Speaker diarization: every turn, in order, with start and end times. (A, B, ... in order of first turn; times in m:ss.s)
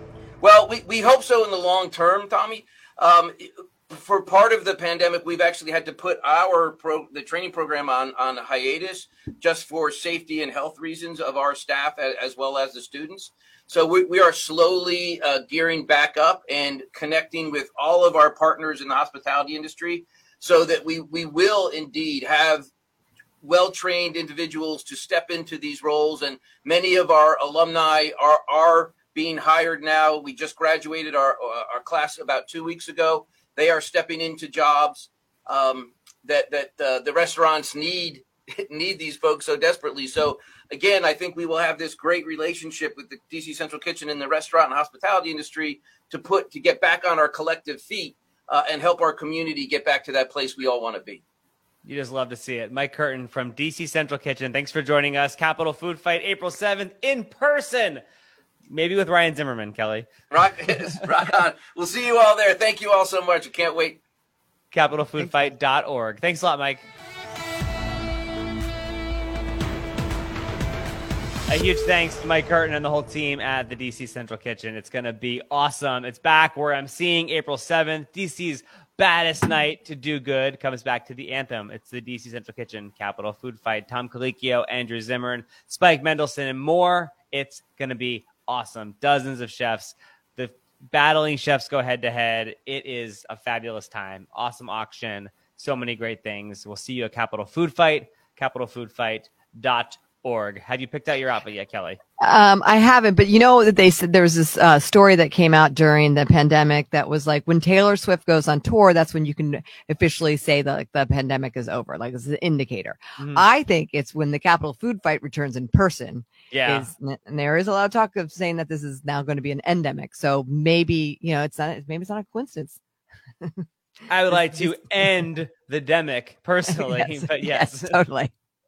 0:00.4-0:22.7 A
0:23.4-0:51.2 A
0:51.8-0:58.0 B
0:58.7-1:00.1 B
1:00.3-1:04.0 A
1:04.7-1:06.8 B
1:11.5-1:42.0 B
1:42.2-2:02.8 C
1:53.2-1:53.4 B
1:56.5-1:56.9 B
2:04.1-2:08.0 B
2:04.4-2:05.0 C
2:06.7-2:08.3 C